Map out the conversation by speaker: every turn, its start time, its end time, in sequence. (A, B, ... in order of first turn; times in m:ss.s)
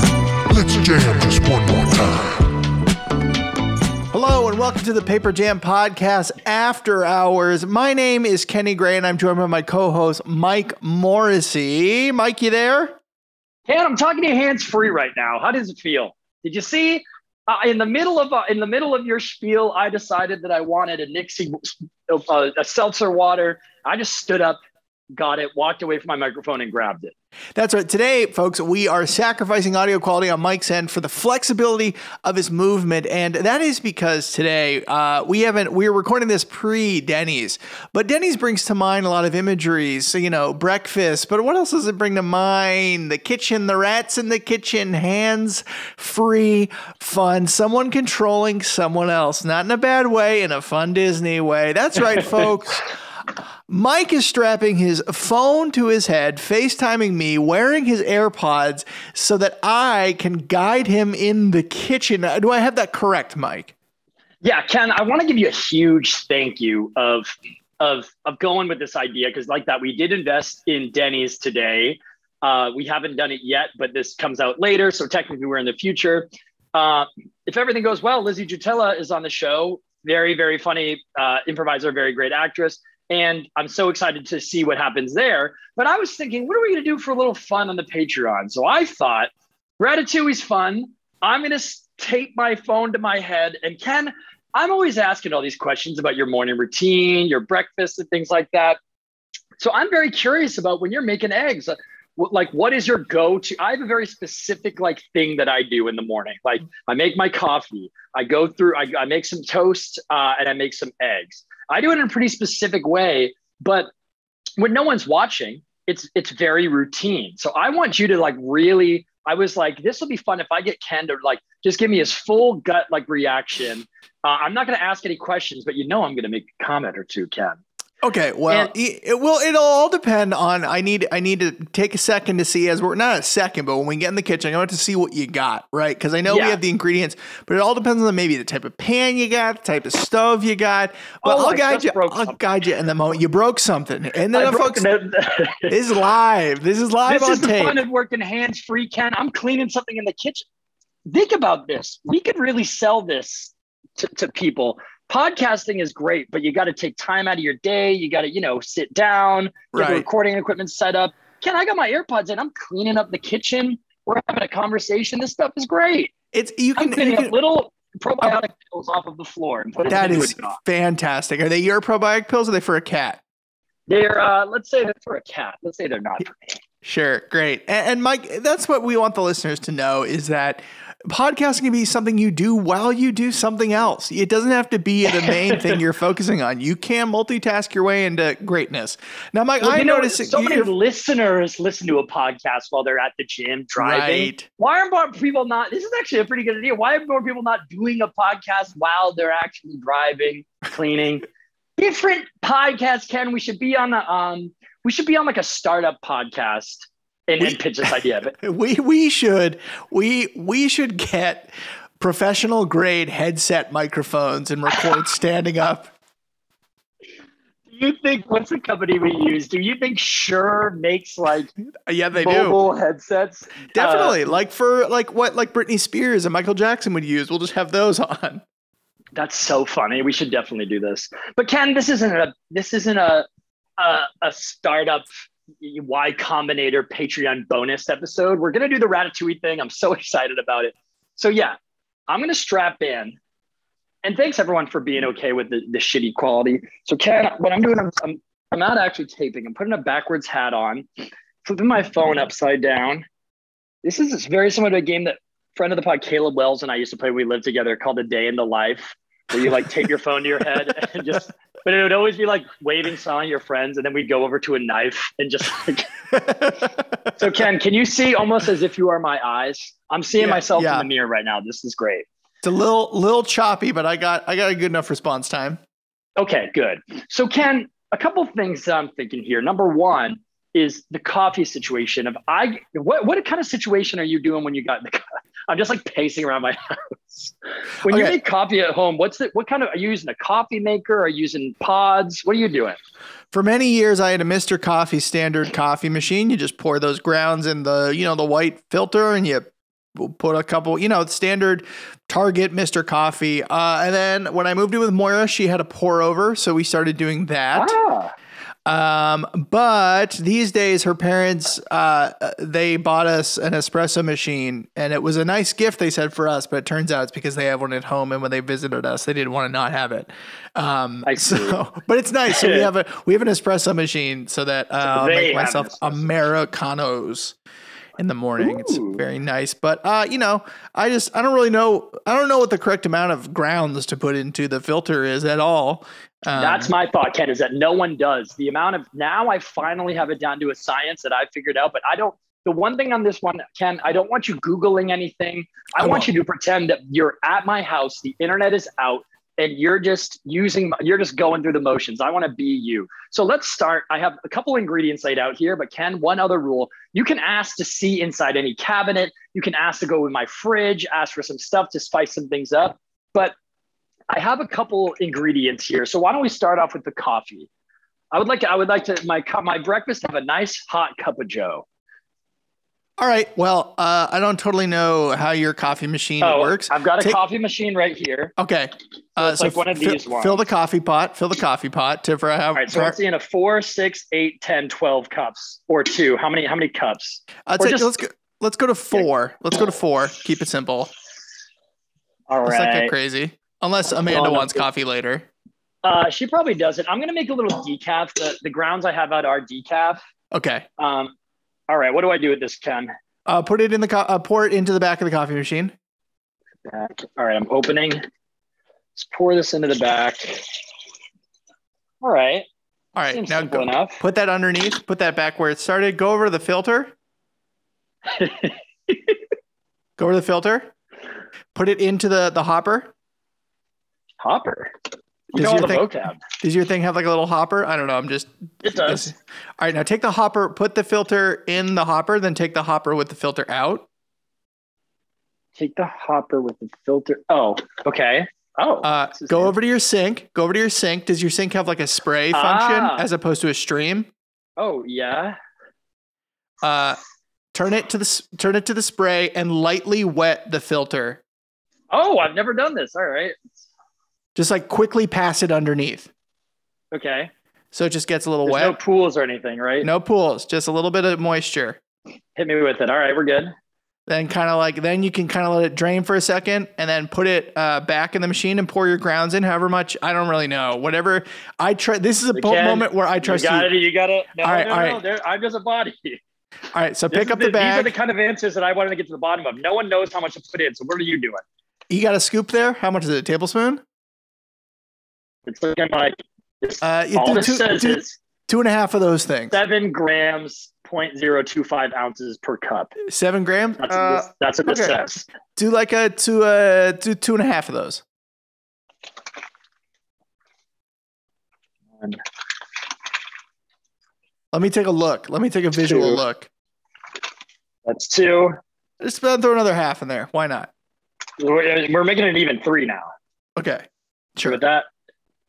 0:00.5-0:02.5 A
0:04.1-0:13.0 B
0:13.7-0:24.6 C
0:25.1-0:27.1 C
0:27.5-0:52.9 B
0:53.7-1:03.7 B
1:04.4-1:38.8 C
1:39.6-1:53.9 C
1:54.6-2:07.6 C
2:08.0-2:24.8 B
2:16.2-2:16.6 C
2:21.2-2:22.4 C
2:24.3-2:25.8 C
2:25.7-2:27.8 B
2:27.1-2:30.4 C
2:31.1-2:46.1 C
2:39.7-2:40.0 B
2:46.3-2:47.3 B
2:46.8-2:50.6 C
2:49.9-2:53.2 B
2:53.9-2:56.6 C
2:56.8-3:10.7 B
3:05.1-3:05.8 C
3:09.6-3:21.2 C
3:13.8-3:14.4 B
3:21.8-3:28.3 C
3:27.4-3:35.9 B
3:37.7-3:41.5 C
3:41.6-3:42.6 B
3:42.1-3:44.4 C
3:43.7-3:48.4 B
3:49.1-3:53.2 C
3:53.8-3:55.1 C
3:55.6-4:01.6 C
4:02.1-4:03.2 C
4:04.0-4:10.8 C
4:11.4-4:13.0 C
4:13.8-4:25.9 C
4:26.2-4:26.7 B
4:27.1-4:32.0 C
4:30.2-4:30.9 B
4:32.4-4:35.6 B
4:36.2-4:52.8 C
4:47.9-4:48.2 B
4:53.3-5:07.7 B
5:07.5-5:08.1 C
5:08.6-5:27.4 B
5:21.0-5:21.6 C
5:22.3-5:22.7 C
5:24.8-5:26.2 C
5:28.0-5:36.7 B
5:28.4-5:29.0 C
5:36.3-6:03.3 C
5:45.8-5:46.1 B
6:04.1-6:07.5 C
6:08.1-6:11.6 C
6:13.0-6:17.2 B
6:16.2-6:18.3 C
6:18.4-6:23.0 B
6:19.2-6:20.4 C
6:22.5-6:27.9 C
6:27.4-6:30.9 B
6:32.3-6:32.9 C
6:32.4-6:35.2 B
6:34.1-6:34.6 C
6:35.8-6:40.0 C
6:40.3-6:40.7 B
6:40.8-6:41.1 C
6:41.7-6:42.9 C
6:43.2-6:45.7 B
6:46.6-6:48.0 C
6:49.0-6:50.5 C
6:52.0-6:52.4 C
6:52.9-6:56.9 B
6:53.0-6:54.0 C
6:58.1-6:59.2 C
7:00.0-7:00.7 B
7:01.5-7:02.9 B
7:04.2-7:04.7 C
7:05.3-7:06.2 C
7:05.3-7:13.9 B
7:08.6-7:09.1 C
7:15.6-7:19.5 C
7:18.8-7:24.1 B
7:22.3-7:23.0 C
7:24.6-7:25.4 C
7:26.6-7:27.0 B
7:27.5-7:31.2 B
7:31.9-7:33.7 C
7:34.3-7:36.1 B
7:36.9-7:37.3 C
7:37.7-7:38.8 B
7:38.4-7:39.9 C
7:39.8-7:41.8 B
7:42.4-7:43.5 C
7:44.1-7:53.7 B
7:52.3-7:56.2 C
7:54.4-7:55.0 B
7:56.7-7:57.9 B
7:57.1-8:01.4 C
8:01.9-8:03.8 B
8:05.4-8:08.2 C
8:06.8-8:09.6 B
8:09.5-8:13.0 C
8:13.0-8:15.0 B
8:13.8-8:15.3 C
8:15.6-8:18.0 B
8:24.5-8:26.5 B
8:25.8-8:26.2 C
8:27.8-8:28.6 C
8:29.0-8:30.7 B
8:31.4-8:33.1 C
8:33.6-8:34.6 B
8:34.4-8:34.9 C